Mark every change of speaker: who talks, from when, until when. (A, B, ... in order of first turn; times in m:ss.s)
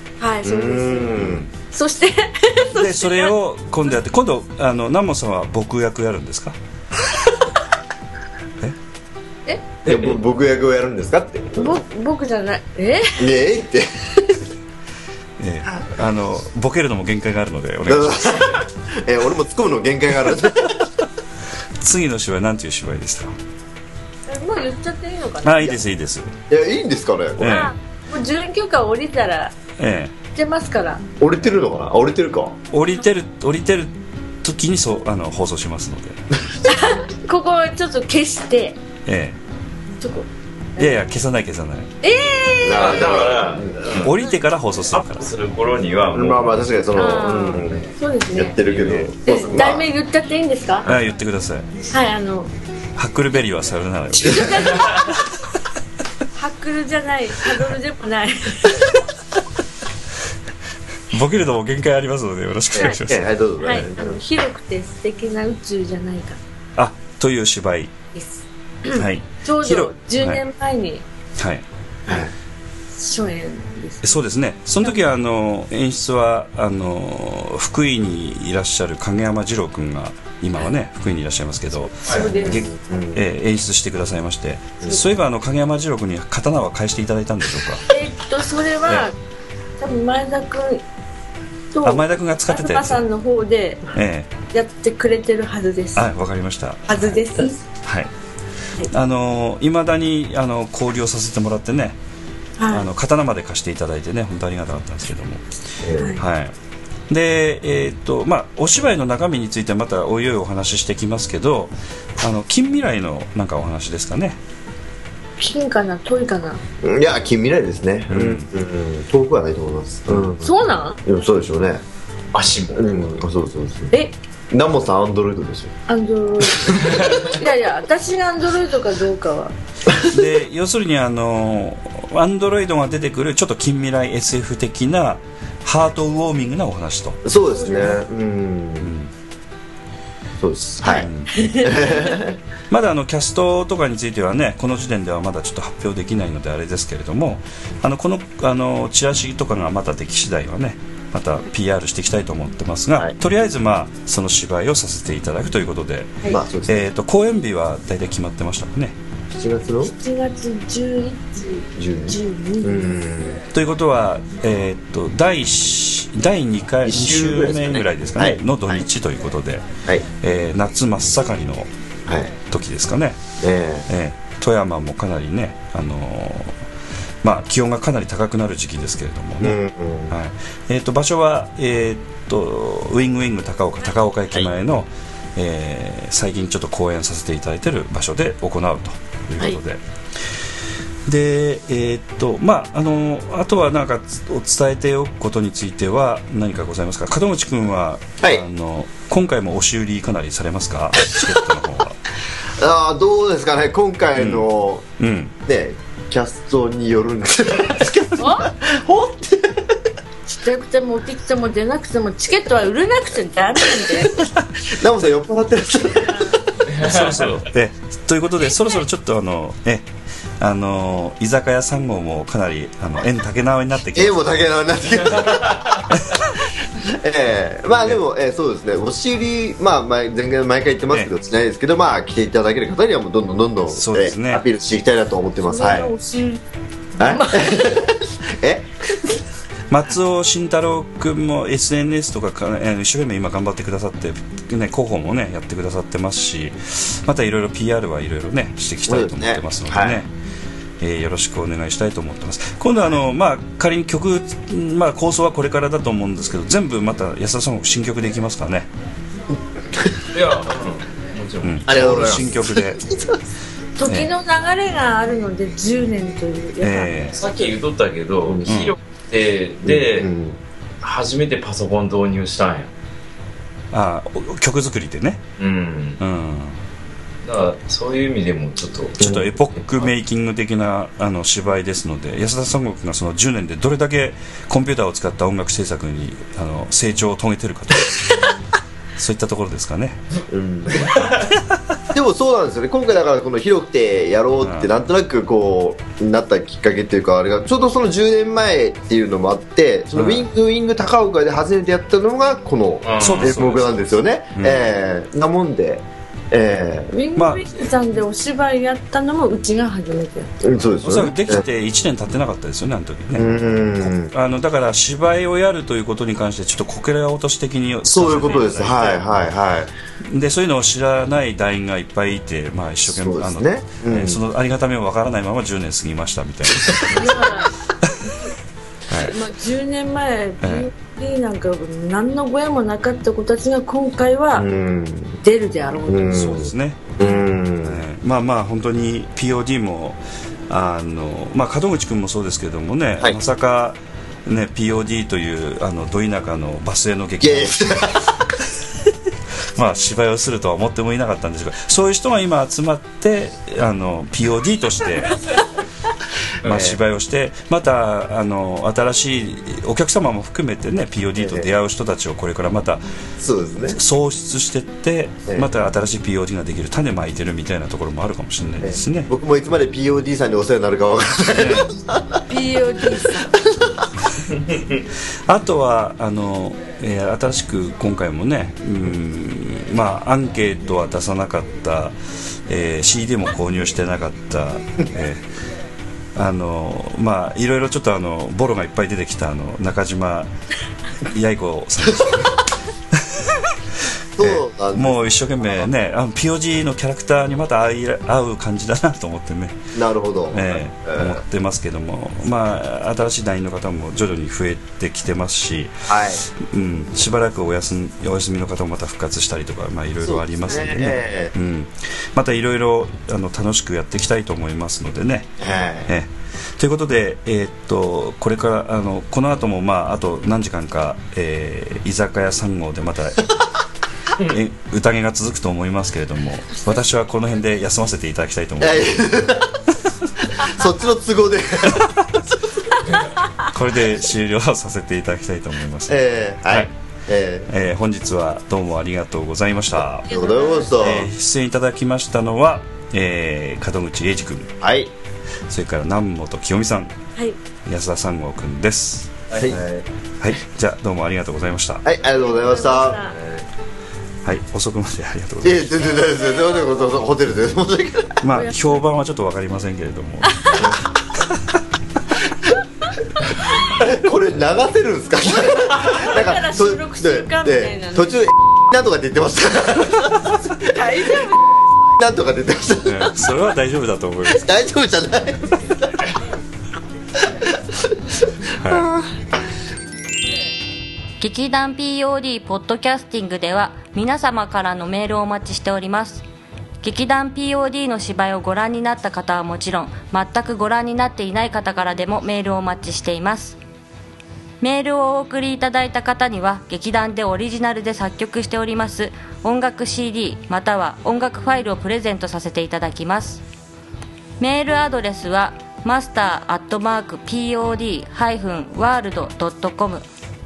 0:00.2-0:01.2 A
0:00.4-0:01.5 B
0:01.1-0:01.5 C
0:01.7-0:03.4 A
0:02.7-0:06.6 C
0:09.8-0:10.2 D
0:09.8-0:11.8 B
0:11.6-0:13.2 A
0:13.2-0:13.9 B
0:15.4-0:18.6 C
0:17.8-0:20.8 B
0:21.8-0:23.3 C
0:24.3-0:25.8 A
0:25.4-0:26.3 C
0:26.5-0:27.7 B
0:27.4-0:27.7 C
0:27.4-0:29.5 A
0:29.8-0:30.1 C
0:30.3-0:31.0 A
0:31.2-0:32.6 B
0:32.7-0:36.2 C
0:36.6-0:38.8 A
0:39.0-0:39.4 C
0:40.0-0:40.9 A
0:40.8-0:41.9 C
0:42.0-0:43.0 A
0:42.6-0:44.0 B
0:42.7-0:44.1 D
0:44.0-0:45.2 C
0:44.9-0:46.6 D
0:46.1-0:47.8 B
0:46.9-0:48.6 A
0:48.3-0:49.9 B
0:48.6-0:49.0 D
0:49.2-0:50.9 A
0:50.8-0:51.7 C
0:51.9-0:52.5 A
0:53.0-0:55.0 C
0:54.1-0:55.1 A
0:54.7-0:55.0 D
0:56.3-0:59.0 A
1:01.1-1:03.3 C
1:02.8-1:04.2 B
1:03.6-1:06.4 A
1:06.8-1:07.9 C
1:08.1-1:11.0 A
1:08.9-1:10.4 C
1:11.4-1:11.6 C
1:12.1-1:12.3 B
1:12.9-1:14.1 A
1:14.0-1:27.9 C
1:22.1-1:23.2 B
1:22.1-1:22.7 A
1:27.9-1:29.2 A
1:29.8-1:30.8 A
1:31.7-1:33.8 A
1:31.8-1:33.0 C
1:33.9-1:34.3 C
1:34.5-1:36.1 A
1:35.9-1:37.0 C
1:36.9-1:37.6 A
1:37.8-1:38.1 C
1:38.9-1:42.0 C
1:42.6-1:42.9 A
1:42.7-1:45.5 C
1:45.8-1:46.2 B
1:45.9-1:46.2 A
1:46.1-1:46.5 C
1:47.1-1:54.4 C
1:55.4-1:56.6 A
1:56.8-2:00.5 B
1:58.1-1:58.4 C
2:00.4-2:01.0 A
2:01.0-2:01.8 B
2:02.3-2:03.0 D
2:02.7-2:03.9 B
2:04.5-2:05.7 B
2:05.9-2:09.5 A
2:07.0-2:07.3 D
2:09.9-2:10.2 B
2:09.9-2:17.2 C
2:17.2-2:18.9 B
2:17.4-2:18.0 A
2:18.8-2:19.1 C
2:20.4-2:22.4 B
2:20.8-2:22.2 A
2:20.9-2:21.4 C
2:22.7-2:39.0 C
2:36.2-2:36.9 B
2:39.3-2:39.9 B
2:39.8-2:43.0 A
2:41.8-2:43.4 B
2:43.5-2:49.7 C
2:46.8-2:48.9 B
2:50.2-2:51.7 C
2:52.1-2:52.3 B
2:52.4-2:53.2 C
2:53.4-2:53.9 B
2:53.9-2:56.5 C
2:57.2-2:59.6 C
2:59.4-3:00.2 B
3:00.1-3:09.8 C
3:11.0-3:22.0 C
3:22.6-3:24.8 B
3:24.2-3:24.4 C
3:25.0-3:25.3 C
3:25.4-3:29.7 B
3:28.2-3:28.5 A
3:30.3-3:34.2 A
3:34.7-3:36.9 B
3:36.6-3:37.4 D
3:36.8-3:39.9 C
3:40.4-3:44.3 C
3:43.9-3:45.8 B
3:45.4-3:45.8 D
3:46.8-3:55.9 B
3:53.7-3:54.4 C
3:55.4-3:56.4 A
3:55.6-3:55.9 C
3:57.0-3:59.2 B
3:57.0-3:57.5 A
3:59.7-4:10.1 C
4:08.9-4:10.0 B
4:10.8-4:18.7 C
4:19.7-4:20.0 B
4:20.1-4:21.6 D
4:21.4-4:23.1 C
4:21.6-4:23.1 B
4:23.8-4:27.1 A
4:26.6-4:27.1 C
4:27.1-4:30.1 D
4:28.4-4:28.8 C
4:29.6-4:30.4 B
4:30.8-4:32.7 D
4:33.7-4:35.2 C
4:35.4-4:36.0 D
4:36.0-4:36.6 C
4:37.2-4:39.0 D
4:39.0-4:39.3 B
4:39.0-4:48.0 C
4:39.6-4:39.9 D
4:49.0-4:50.0 C
4:50.3-4:51.0 B
4:51.9-5:06.9 B
4:54.4-4:54.7 C
4:59.9-5:00.2 C
5:02.8-5:03.4 D
5:03.0-5:04.7 C
5:06.9-5:10.3 A
5:07.2-5:07.5 C
5:10.4-5:11.4 B
5:10.8-5:19.0 C
5:13.1-5:14.1 B
5:17.8-5:19.7 B
5:20.0-5:27.3 C
5:22.9-5:24.2 B
5:26.9-5:27.5 A
5:28.0-5:28.3 A
5:28.9-5:29.1 C
5:28.9-5:34.5 A
5:30.4-5:30.7 C
5:34.4-5:35.2 B
5:35.2-5:36.2 A
5:35.8-5:37.8 B
5:36.1-5:48.0 C
5:47.2-5:48.2 B
5:49.5-5:55.2 C
5:56.4-5:56.8 B
5:56.4-6:02.8 C
6:01.2-6:01.5 B
6:03.2-6:03.8 B
6:03.7-6:09.1 C
6:08.6-6:13.8 B
6:11.3-6:11.7 C
6:12.3-6:13.3 A
6:15.2-6:21.9 C
6:22.5-6:25.3 C
6:26.1-6:30.3 C
6:31.0-6:33.5 C
6:34.2-6:35.7 B
6:34.2-6:39.6 C
6:39.7-6:41.2 B
6:40.3-6:45.7 C
6:45.9-6:46.2 B
6:46.4-6:55.3 C
6:50.0-6:51.3 B
6:55.4-6:55.9 B
6:55.9-7:03.3 C
7:04.2-7:04.4 D
7:04.3-7:09.0 C
7:08.6-7:09.6 B
7:10.3-7:11.9 B
7:13.4-7:16.7 C
7:15.9-7:17.5 B
7:17.5-7:20.1 C
7:20.0-7:21.1 B
7:20.1-7:20.8 A
7:20.8-7:24.5 C
7:24.6-7:24.9 B
7:25.5-7:26.9 C
7:27.6-7:29.6 C
7:29.3-7:29.6 D
7:29.4-7:29.6 B
7:30.2-7:31.8 C
7:31.8-7:33.3 B
7:32.0-7:33.2 A
7:34.2-7:35.7 C
7:35.4-7:38.2 B
7:38.2-7:40.7 C
7:38.3-7:38.8 A
7:40.3-7:40.6 A
7:43.6-7:50.9 B
7:45.4-7:48.2 A
7:50.7-7:51.4 A
7:52.0-7:53.2 B
7:52.8-7:54.4 C
7:54.3-7:56.0 B
7:57.5-7:57.9 B
7:58.6-7:58.9 C
7:58.6-7:59.1 B
8:01.2-8:06.2 E
8:06.8-8:13.6 E
8:14.6-8:23.4 E
8:24.4-8:30.0 E